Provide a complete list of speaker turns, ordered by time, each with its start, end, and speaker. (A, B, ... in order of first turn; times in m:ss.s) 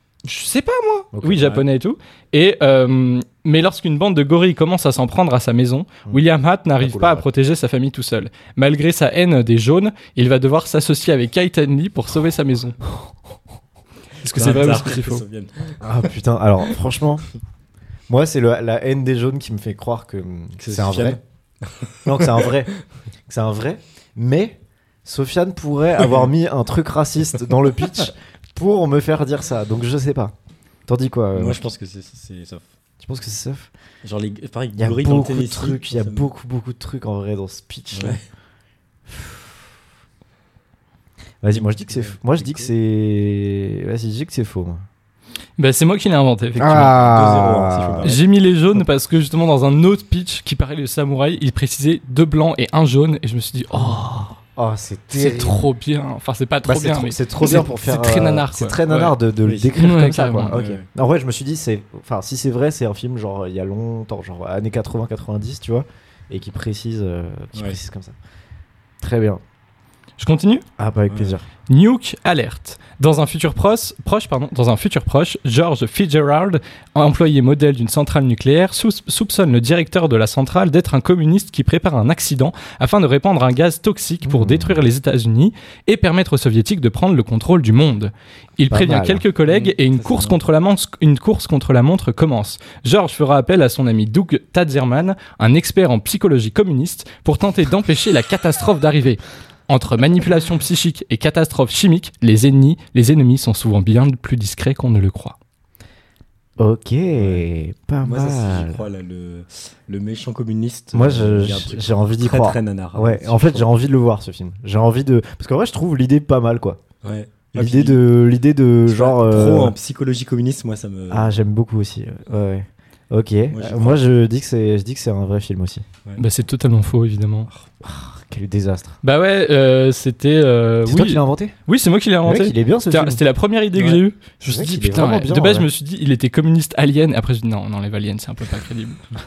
0:00.2-0:12.8 A
0:01.1-0:01.7 B
0:06.8-0:07.3 B
0:14.2-0:15.2 A
0:14.3-0:15.9 C
0:15.8-0:17.3 B
0:18.1-0:21.2 B
0:20.6-0:22.6 C
0:22.0-0:22.7 B
0:23.3-0:30.3 B
0:30.9-0:31.6 B
0:31.3-0:32.6 C
0:33.0-0:33.7 B
0:34.0-0:36.3 C
0:34.8-0:38.2 B
0:37.9-0:38.2 C
0:39.1-0:39.6 B
0:41.4-0:44.8 B
0:41.5-0:42.7 C
0:45.6-0:47.0 A
0:46.6-0:48.2 B
0:46.7-0:48.2 C
0:48.0-0:54.4 A
0:54.6-0:55.7 B
0:55.1-0:59.2 A
0:56.6-1:08.2 B
0:59.4-0:59.8 C
0:59.8-1:00.6 A
1:00.5-1:00.9 C
1:09.0-1:09.4 B
1:10.2-1:10.6 A
1:10.8-1:11.5 B
1:11.1-1:11.4 C
1:11.7-1:45.4 A
1:24.2-1:24.8 B
1:28.7-1:29.2 B
1:29.5-1:30.4 C
1:46.6-1:48.8 B
1:47.1-1:47.5 C
1:48.0-1:53.7 C
1:50.9-1:56.8 B
1:57.0-1:58.0 C
1:57.5-1:59.8 B
1:58.9-2:01.4 C
2:01.1-2:05.8 B
2:03.5-2:04.0 C
2:06.2-2:07.5 A
2:07.8-2:09.0 B
2:09.0-2:19.0 A
2:10.9-2:11.5 B
2:12.2-2:13.2 B
2:13.7-2:14.0 C
2:14.4-2:15.7 B